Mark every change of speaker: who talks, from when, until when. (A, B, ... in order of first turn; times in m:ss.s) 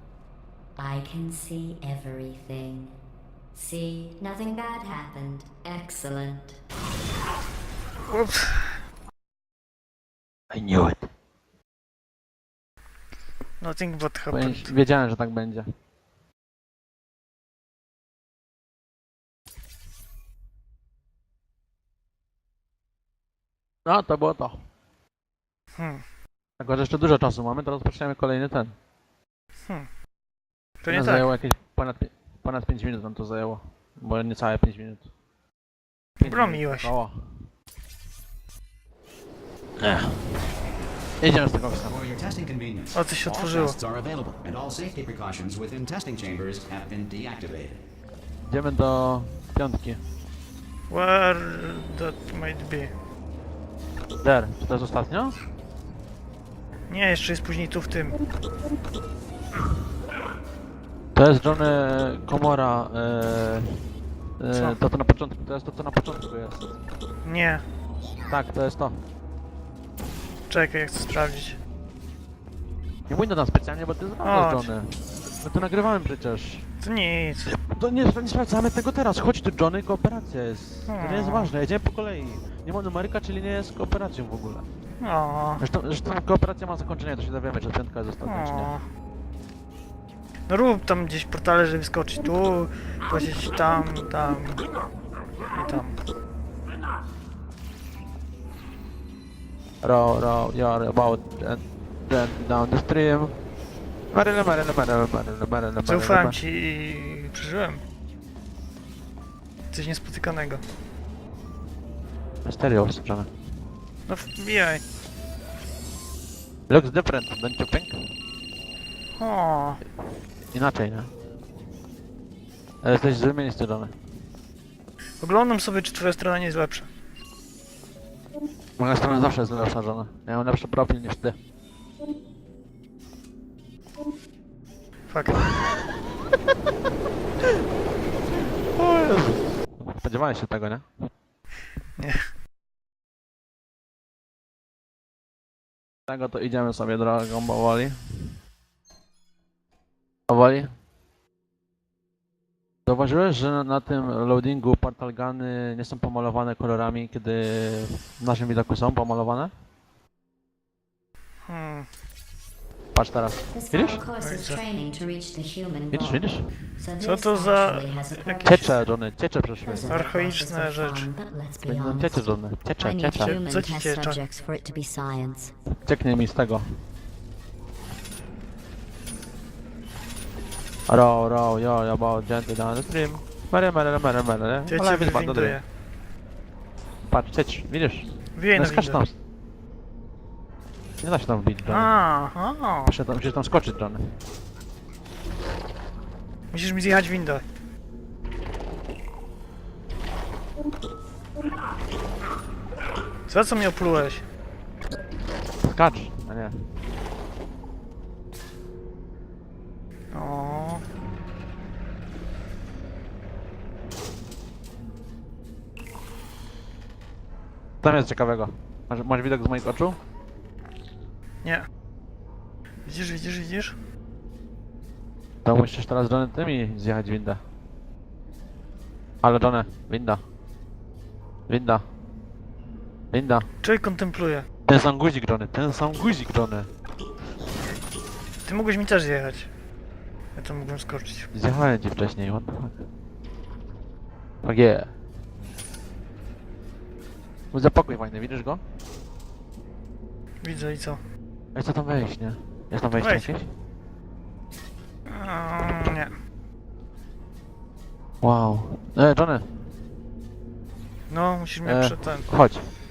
0:00.8-0:03.0 A
0:03.5-0:06.6 A
0:08.1-0:08.8 B
0:10.5-0:11.1 C
0:13.6-0:14.7 B
0:14.3-0:15.7 C
0:23.8-0:24.6 C
0:25.8-0:26.0 B
0:26.6-0:28.7 C
0:30.8-0:31.3 B
0:30.9-0:35.1 C
0:36.2-0:36.9 B
0:36.2-0:37.5 C
0:39.8-0:40.4 C
0:41.2-0:42.0 C
0:41.9-0:47.8 D
0:42.9-0:43.8 B
0:48.4-0:50.0 C
0:50.9-0:52.9 B
0:54.2-0:55.4 C
0:56.9-0:58.2 B
1:01.1-1:03.8 C
1:04.4-1:06.7 C
1:04.5-1:04.8 B
1:07.2-1:07.6 B
1:08.3-1:09.0 C
1:10.5-1:11.6 B
1:13.1-1:16.7 C
1:14.2-1:14.7 B
1:16.8-1:17.5 B
1:17.4-1:24.6 C
1:20.9-1:21.5 B
1:25.0-1:25.6 B
1:25.6-1:28.7 C
1:28.2-1:28.8 B
1:30.5-1:34.6 B
1:35.5-1:36.0 B
1:39.8-1:43.4 C
1:44.1-1:46.4 C
1:45.8-1:47.8 B
1:49.7-1:50.6 B
1:52.4-1:53.3 C
1:54.1-1:54.8 B
1:56.7-1:58.2 C
1:59.2-1:59.8 B
2:00.5-2:01.1 C
2:02.8-2:03.9 C
2:05.2-2:06.9 B
2:08.8-2:11.4 C
2:15.1-2:15.4 B
2:18.3-2:21.1 C
2:22.0-2:22.3 B
2:26.1-2:28.4 C
2:30.3-2:30.7 C
2:32.8-2:39.5 C
2:41.4-2:41.9 B
2:42.9-2:44.0 C
2:43.5-2:48.8 A
2:44.2-2:44.6 B
2:45.9-2:46.5 C
2:47.0-2:48.6 B
2:48.4-2:49.9 C
2:49.6-2:55.5 A
2:49.9-2:51.1 B
2:51.6-2:53.4 C
2:53.2-2:54.2 B
2:55.8-2:56.8 C
3:00.9-3:05.6 C
3:04.7-3:05.6 B
3:07.1-3:09.1 C
3:08.4-3:09.0 B
3:11.0-3:11.9 C
3:11.6-3:13.0 B
3:12.8-3:14.1 C
3:16.5-3:17.4 B
3:23.3-3:24.2 B
3:25.6-3:26.7 C
3:30.1-3:30.8 B
3:37.8-3:40.0 C
3:42.8-3:43.8 B
3:45.4-3:47.4 C
3:49.2-3:50.2 C
3:51.5-3:51.8 C
3:53.1-3:53.5 C
3:53.6-3:54.5 B
3:54.7-3:56.7 C
3:58.4-3:59.5 B
4:00.4-4:01.3 B
4:01.3-4:02.8 C
4:04.4-4:04.9 C
4:07.5-4:08.6 C
4:10.4-4:11.0 B
4:11.5-4:13.5 C
4:13.0-4:13.3 B
4:15.1-4:16.1 B
4:18.2-4:19.5 C
4:21.1-4:22.3 B
4:21.6-4:22.7 C